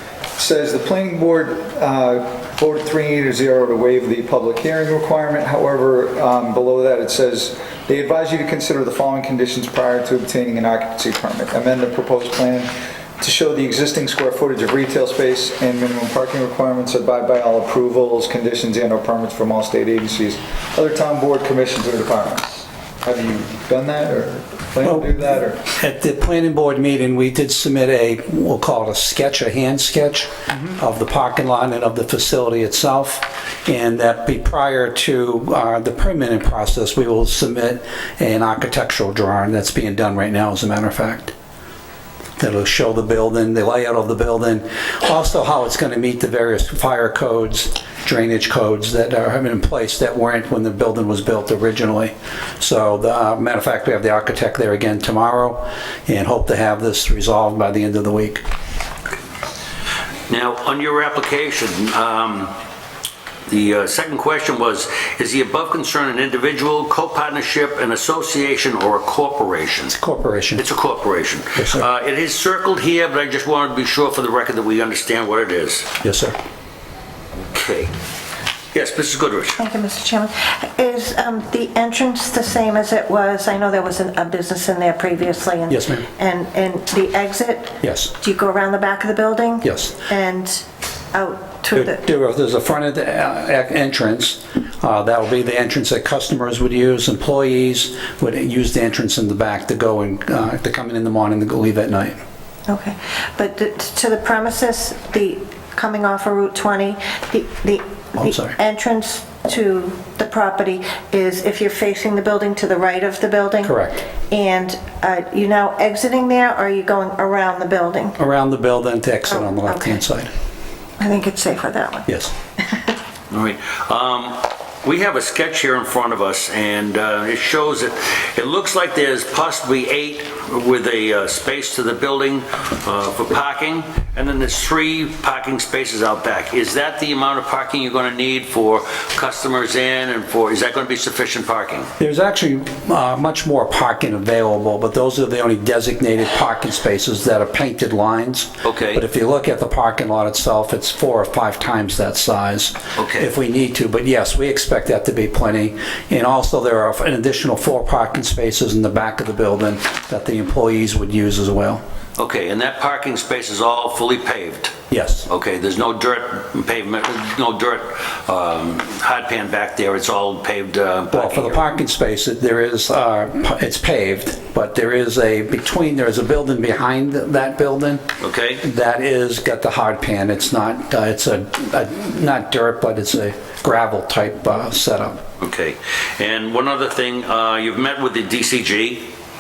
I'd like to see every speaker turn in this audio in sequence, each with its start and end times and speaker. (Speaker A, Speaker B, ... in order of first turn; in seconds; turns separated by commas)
Speaker A: 0.4-25.6, Speaker B: 24.8-41.3, Speaker B: 42.4-58.4, Speaker C: 60.3-62.6, Speaker C: 63.5-70.0, Speaker B: 69.9-70.7, Speaker C: 70.6-75.9, Speaker B: 71.6-71.9, Speaker B: 76.0-76.3, Speaker C: 77.5-77.9, Speaker C: 78.7-79.6, Speaker D: 79.6-92.0, Speaker B: 85.7-86.0, Speaker B: 87.8-88.1, Speaker B: 89.6-90.0, Speaker B: 91.7-102.2, Speaker D: 102.7-113.7, Speaker B: 108.2-108.5, Speaker B: 113.6-114.0, Speaker D: 114.3-118.2, Speaker B: 118.2-120.3, Speaker D: 119.3-120.0, Speaker D: 121.0-122.1, Speaker B: 122.1-122.3, Speaker D: 122.6-122.9, Speaker C: 123.3-141.9, Speaker B: 142.0-161.8, Speaker C: 148.6-149.0, Speaker C: 153.0-153.3, Speaker C: 162.2-164.7, Speaker B: 164.9-165.3, Speaker C: 165.3-171.6, Speaker B: 171.1-178.0, Speaker C: 178.2-178.6, Speaker B: 178.6-185.2, Speaker C: 185.4-189.1